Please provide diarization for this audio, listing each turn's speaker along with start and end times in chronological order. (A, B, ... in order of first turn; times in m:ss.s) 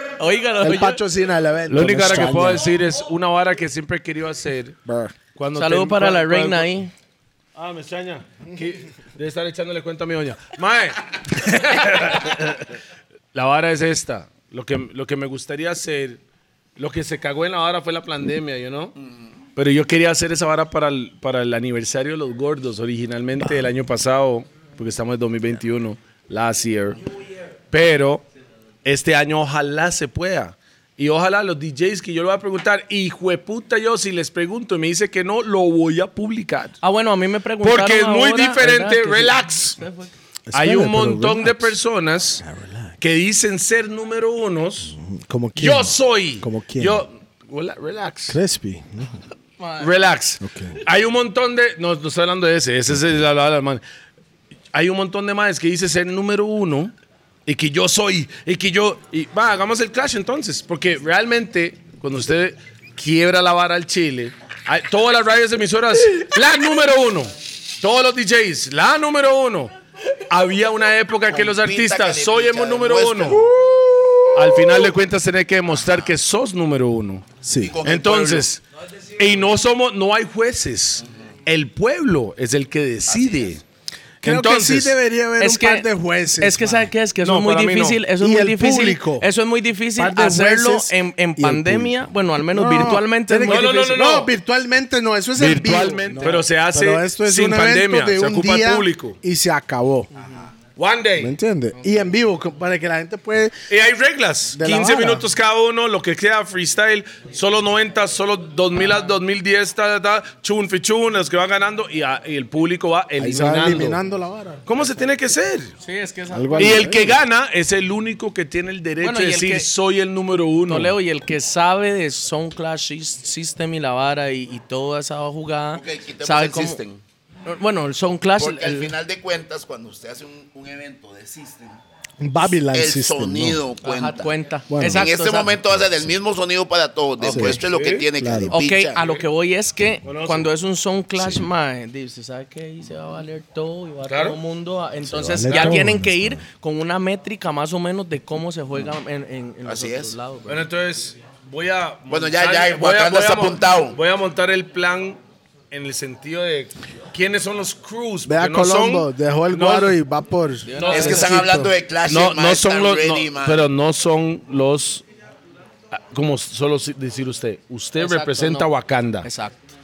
0:00.2-0:01.0 A
0:00.6-0:02.6 B
0:01.7-0:04.8 C
0:04.8-0:05.1 B
0:05.4-0:06.7 C
0:05.6-0:06.9 A
0:07.5-0:12.7 C
0:13.3-0:16.2 C
0:16.8-0:18.9 C
0:19.6-0:27.0 C
0:27.7-0:28.2 C
0:28.8-0:36.8 C
0:36.8-0:40.1 A
0:37.6-0:39.8 C
0:40.5-0:41.7 B
0:40.5-0:42.4 C
0:42.4-0:42.9 B
0:43.0-0:44.9 C
0:44.9-0:47.0 B
0:45.6-0:48.4 C
0:48.3-0:49.2 B
0:49.6-0:49.9 A
0:49.8-0:53.8 C
0:50.4-0:50.8 B
0:54.7-0:56.9 C
0:57.4-1:09.7 C
1:10.3-1:13.4 C
1:11.3-1:13.5 D
1:13.4-1:14.8 B
1:14.3-1:17.2 C
1:17.4-1:17.8 B
1:17.6-1:18.5 D
1:17.8-1:18.6 C
1:19.2-1:23.6 C
1:24.2-1:24.9 C
1:24.2-1:26.8 B
1:25.4-1:25.9 A
1:26.4-1:34.0 A
1:27.2-1:28.0 C
1:28.2-1:29.3 B
1:30.0-1:40.1 B
1:33.4-1:34.3 C
1:35.4-1:39.2 C
1:40.8-1:41.3 C
1:41.2-1:43.6 B
1:43.7-1:54.0 C
1:44.5-1:45.3 B
1:53.2-1:54.6 B
1:54.6-1:55.7 C
1:55.8-1:56.8 A
1:56.3-1:57.2 B
1:56.6-2:00.9 C
1:59.0-1:59.7 A
2:00.7-2:06.8 A
2:05.7-2:07.0 D
2:07.4-2:08.9 A
2:08.4-2:11.8 D
2:12.2-2:13.6 B
2:12.7-2:14.3 D
2:13.8-2:15.6 A
2:14.7-2:15.0 B
2:14.8-2:19.1 D
2:17.2-2:18.1 C
2:17.3-2:17.6 B
2:18.2-2:18.6 B
2:18.5-2:30.6 A
2:20.0-2:20.5 C
2:24.1-2:24.4 C
2:25.0-2:26.4 B
2:25.5-2:25.9 C
2:29.6-2:30.1 D
2:30.5-2:35.2 C
2:32.1-2:34.0 D
2:35.7-2:40.0 C
2:38.2-2:41.7 B
2:40.6-2:41.3 A
2:40.8-2:41.4 C
2:40.9-2:43.6 D
2:42.0-2:45.0 C
2:45.9-2:49.3 C
2:48.0-2:48.7 A
2:49.2-2:49.7 A